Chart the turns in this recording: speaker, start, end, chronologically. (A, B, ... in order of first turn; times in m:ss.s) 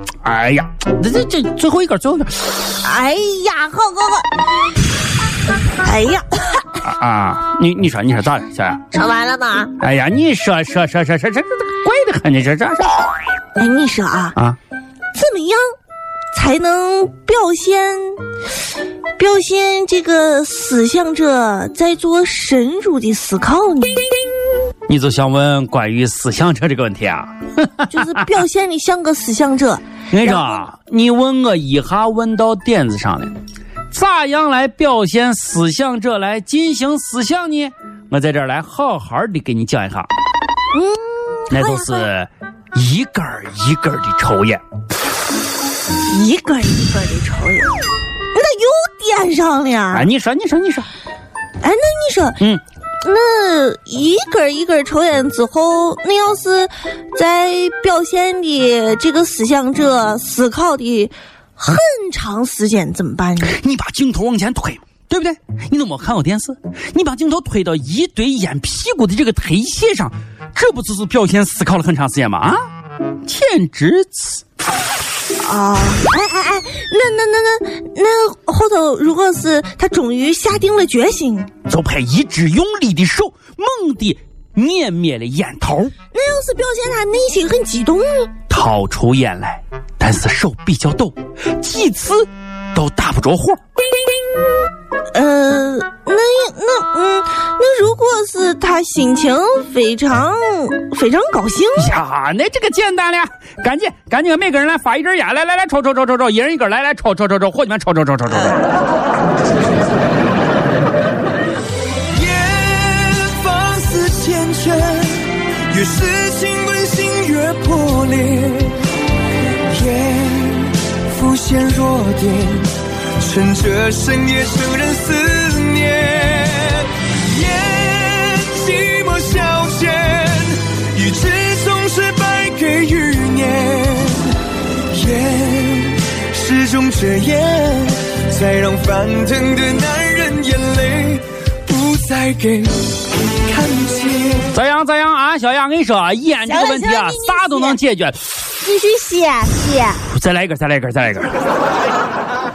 0:00.2-0:02.6 A
0:02.8-0:04.4 B
0:05.8-0:06.8 B
0:06.8-0:08.8 A
0:08.9-0:09.7 B
0:09.8-0:13.0 A
0:13.6-0:14.4 B
0:15.1-0:15.7 B
0:16.3-0:18.2 B
0:19.2-0:24.2 B
0:24.9-0:28.2 A
0:27.9-0:30.7 B
0:30.1-0:33.4 A
0:33.9-0:40.1 A
0:40.7-0:42.0 B
0:41.5-0:44.6 A
0:46.0-0:47.8 B
0:48.3-0:50.1 B
0:49.9-0:50.9 A
0:51.6-0:52.4 B
0:53.0-1:03.6 B
1:03.4-1:12.6 A
1:13.2-1:14.4 A
1:15.4-1:21.5 B
1:21.7-1:25.9 A
1:26.1-1:28.3 B
1:28.5-1:33.6 A
1:35.1-1:42.0 B
1:41.8-1:48.6 A
1:52.1-1:58.8 C
1:59.7-2:14.3 C
2:14.9-2:22.9 C
2:23.4-2:24.5 C
2:24.5-2:28.4 A
2:26.4-2:27.8 B
2:28.6-2:30.0 B
2:30.0-2:31.4 A